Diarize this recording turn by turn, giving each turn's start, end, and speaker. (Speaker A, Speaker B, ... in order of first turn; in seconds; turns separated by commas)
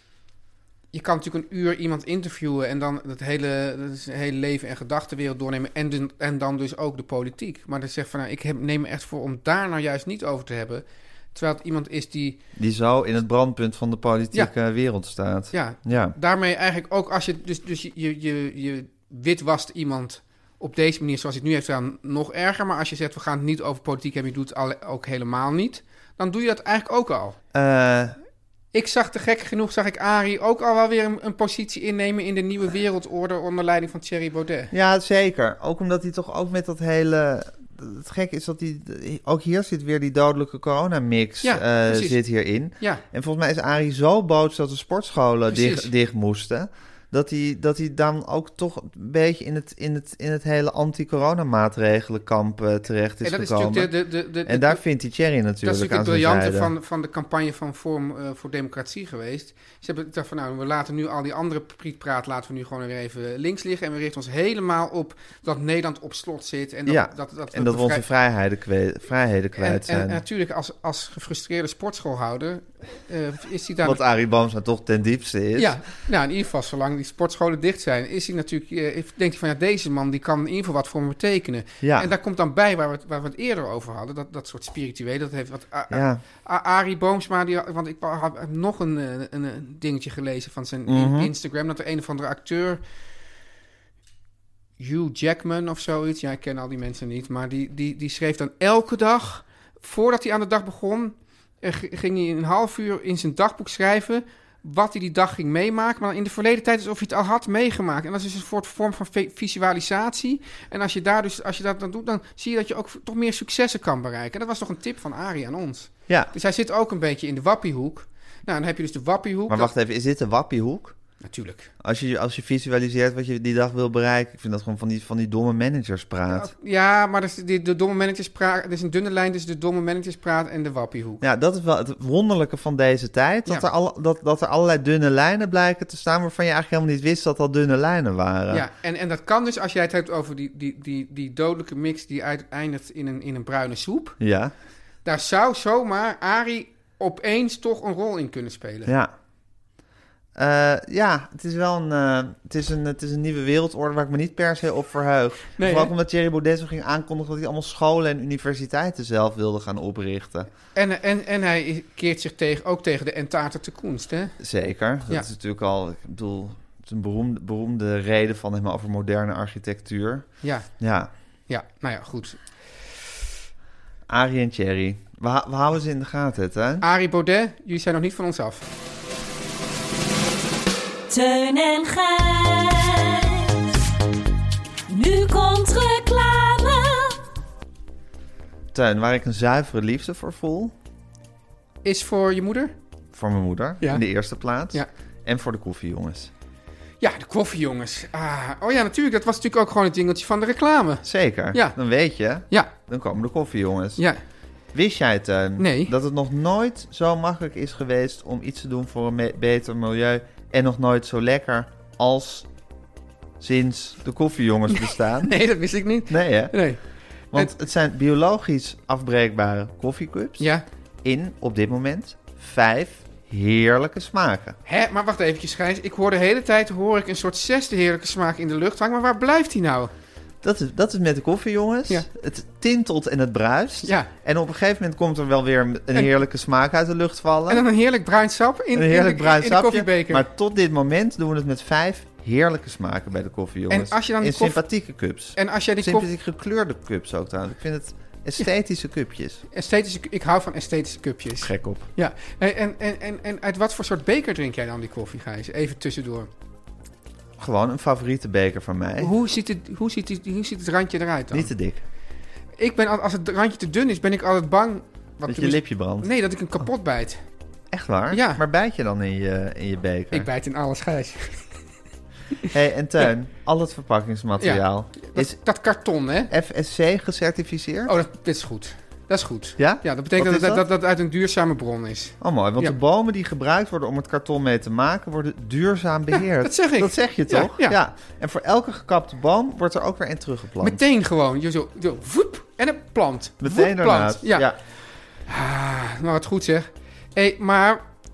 Speaker A: 0.9-12.4, Speaker B: 12.6-16.1, Speaker A: 15.5-27.4, Speaker B: 27.5-28.1, Speaker A: 28.7-34.7, Speaker B: 34.7-53.9, Speaker A: 41.4-42.2, Speaker A: 45.5-45.9, Speaker A: 53.2-54.8, Speaker B: 54.5-56.7, Speaker A: 55.6-68.0, Speaker B: 66.8-70.2, Speaker A: 69.6-74.0, Speaker B: 73.8-75.8, Speaker A: 75.5-92.8, Speaker B: 81.8-82.1, Speaker B: 85.9-86.2, Speaker B: 90.9-91.3, Speaker A: 94.8-119.7, Speaker B: 119.5-121.0, Speaker A: 121.2-121.7, Speaker B: 121.8-126.5, Speaker A: 126.3-131.2, Speaker B: 131.2-138.6, Speaker A: 138.5-144.2, Speaker B: 144.2-144.5, Speaker A: 145.0-148.9, Speaker B: 148.8-149.1, Speaker B: 150.3-160.5, Speaker A: 155.6-155.9, Speaker A: 160.7-164.3, Speaker B: 164.4-171.1, Speaker A: 171.5-172.4, Speaker B: 174.1-176.8, Speaker A: 176.8-178.6, Speaker C: 181.1-183.7, Speaker C: 184.9-187.2, Speaker B: 188.7-190.7, Speaker A: 191.8-192.7, Speaker B: 193.1-196.3, Speaker A: 197.0-201.8, Speaker B: 201.0-204.0, Speaker B: 204.7-212.5, Speaker A: 205.6-205.9, Speaker B: 213.4-215.3, Speaker A: 214.7-216.8, Speaker B: 216.1-216.5, Speaker B: 217.3-220.5, Speaker A: 220.4-220.6, Speaker B: 221.0-224.6, Speaker A: 224.7-229.9, Speaker B: 230.4-237.6, Speaker A: 233.8-234.1, Speaker A: 237.5-240.2, Speaker B: 238.7-249.4, Speaker A: 243.7-244.6, Speaker A: 245.3-246.1, Speaker A: 249.5-256.3, Speaker B: 251.4-251.8, Speaker B: 257.4-259.1, Speaker A: 259.0-261.5, Speaker B: 261.3-261.8, Speaker A: 262.6-267.2, Speaker B: 265.3-266.1, Speaker B: 267.7-270.3, Speaker A: 268.1-268.4, Speaker A: 270.1-271.5, Speaker B: 272.5-275.4, Speaker A: 274.4-276.3, Speaker B: 276.3-277.9, Speaker A: 277.9-282.7, Speaker B: 279.6-280.6, Speaker B: 282.2-290.8, Speaker A: 286.1-287.8, Speaker A: 290.6-294.5, Speaker B: 293.4-294.6, Speaker A: 295.3-297.8